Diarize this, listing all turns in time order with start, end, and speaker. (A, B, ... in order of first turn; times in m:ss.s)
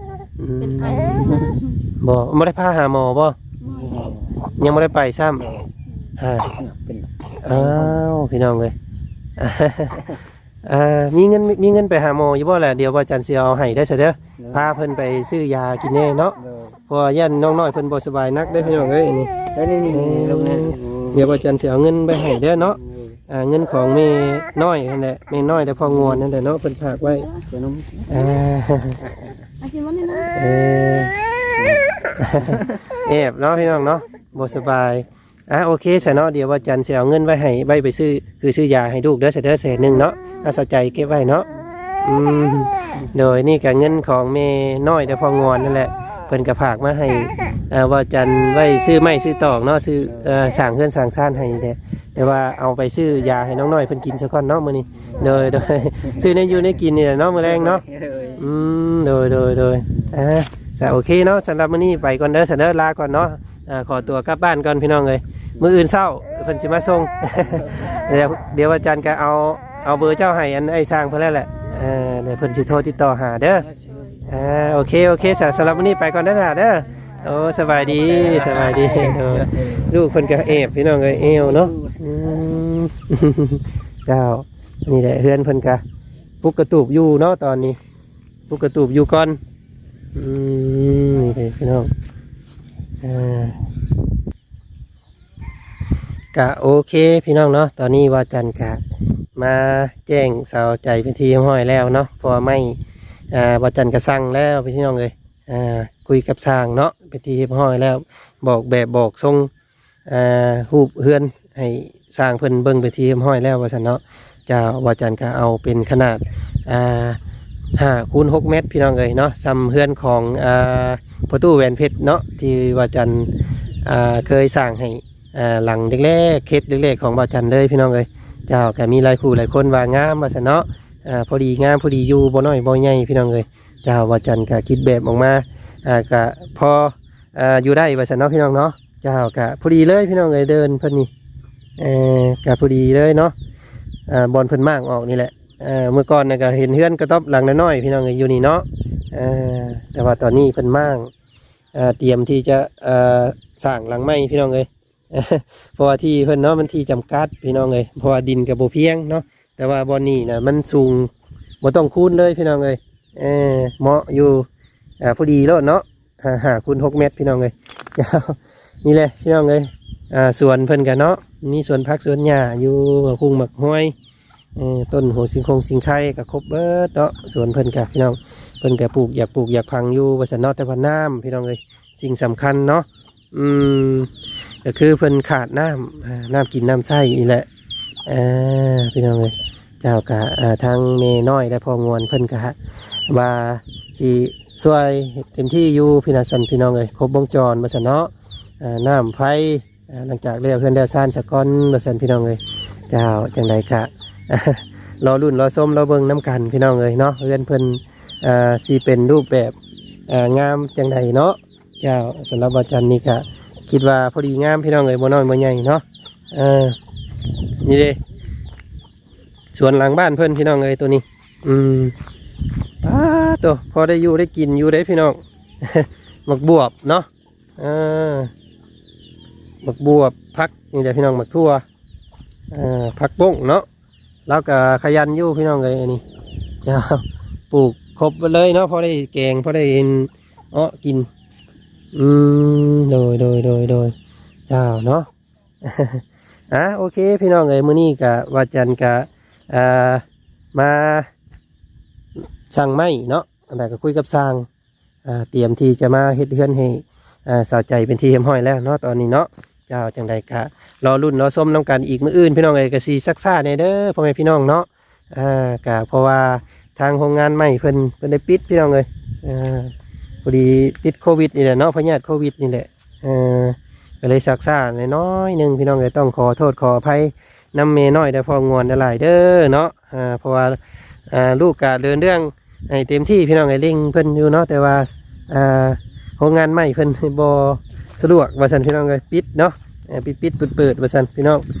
0:00.4-0:01.4 A
0:00.6-0:01.8 B
0:01.2-0:01.5 C
0:02.0-0:03.4 A
0:03.6-0:04.0 B
0:03.7-0:04.3 C
0:04.6-0:05.5 A
0:06.2-0:06.5 A
0:06.5-0:08.0 C
0:07.4-0:08.7 A
0:09.4-0:10.0 A
0:10.6-0:16.4 A
0:14.4-0:14.7 C
0:16.4-0:16.8 C
0:16.9-0:19.3 A
0:18.6-0:18.9 C
0:19.5-0:21.3 C
0:19.9-0:27.3 A
0:22.6-0:23.2 C
0:25.8-0:26.2 C
0:27.0-0:27.4 B
0:27.4-0:28.2 C
0:28.1-0:29.0 A
0:29.0-0:29.4 C
0:29.6-0:30.4 B
0:30.3-0:31.1 A
0:31.5-0:32.8 C
0:32.2-0:41.5 A
0:42.0-0:57.8 A
0:50.0-0:50.4 C
0:55.0-0:56.3 C
0:57.3-0:58.5 C
0:58.4-1:13.6 A
1:07.4-1:08.0 C
1:13.6-1:14.3 C
1:14.3-1:25.8 A
1:17.8-1:20.4 C
1:21.0-1:22.0 C
1:26.4-1:27.8 A
1:28.5-1:29.4 A
1:30.1-1:31.9 A
1:33.0-1:33.6 A
1:36.3-1:38.8 A
1:39.4-1:42.8 A
1:43.3-1:49.5 A
1:50.1-1:57.2 A
1:57.8-2:03.3 A
2:03.8-2:21.1 A
2:21.8-2:23.3 A
2:24.1-2:31.1 A
2:31.7-2:44.5 A
2:45.0-2:53.9 A
2:54.6-3:04.1 A
3:04.6-3:07.4 A
3:08.1-3:12.6 A
3:13.1-3:22.4 A
3:22.9-3:29.5 A
3:30.1-3:36.8 A
3:37.6-3:38.0 A
3:39.5-3:41.9 A
3:42.8-3:47.1 A
3:47.6-3:48.3 A
3:49.6-3:51.6 A
3:52.5-3:53.6 A
3:54.3-3:56.0 A
3:56.6-4:01.1 A
4:01.9-4:03.9 A
4:04.5-4:05.1 A
4:05.6-4:11.1 A
4:12.5-4:14.5 A
4:15.0-4:29.7 A
4:30.2-4:51.4 A